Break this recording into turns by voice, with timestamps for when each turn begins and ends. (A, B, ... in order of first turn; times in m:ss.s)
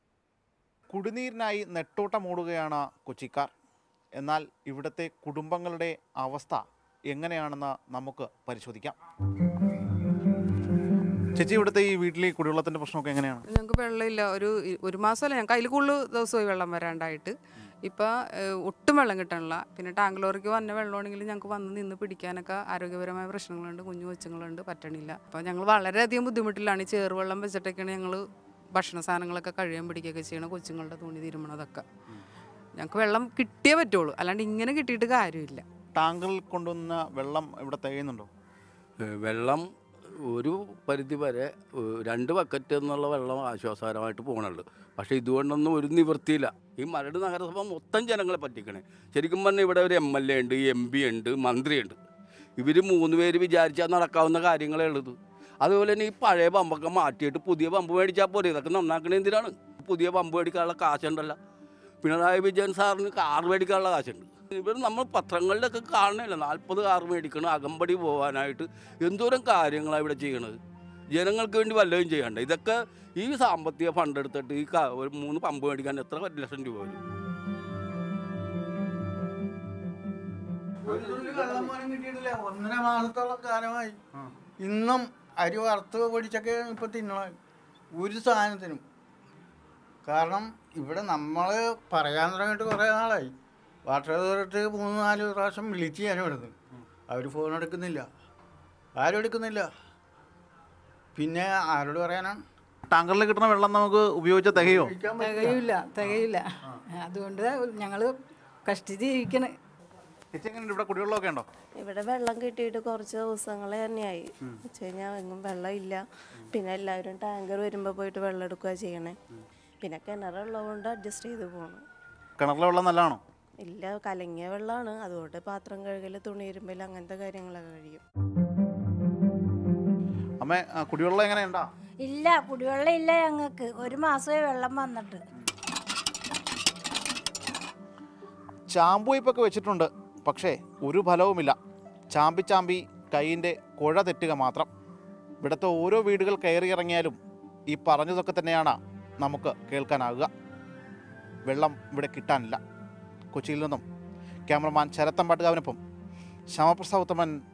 0:00.9-0:03.5 A
0:04.2-0:09.0 A
0:11.3-0:13.4 A
0:13.5-0:17.3 B
0:17.8-0:28.2 B
0:28.7-0:31.8 B
0:32.8-0:35.6 B
0:36.0-0:38.3 A
0:39.2-0:39.6 C
0:40.3-0:52.0 C
0:52.6-1:01.4 C
1:02.0-1:10.6 C
1:11.2-1:17.0 C
1:20.8-1:24.0 D
1:20.9-1:21.7 C
1:24.6-1:27.3 D
1:27.9-1:28.8 D
1:30.0-1:33.3 D
1:33.8-1:36.5 D
1:37.1-1:38.1 D
1:39.0-1:39.7 D
1:41.1-1:42.4 D
1:42.9-1:44.9 A
1:44.5-1:45.6 D
1:45.2-1:49.6 E
1:50.3-1:51.4 A
1:51.8-1:59.2 F
1:59.8-2:01.8 F
2:02.4-2:03.2 A
2:03.6-2:08.0 F
2:10.4-2:11.7 A
2:12.0-2:15.2 G
2:18.7-2:21.6 A
2:22.1-2:24.7 A
2:25.4-2:27.2 A
2:27.7-2:30.3 A
2:31.4-2:32.6 A
2:33.3-2:33.8 A
2:34.5-2:35.8 A
2:36.5-2:37.3 A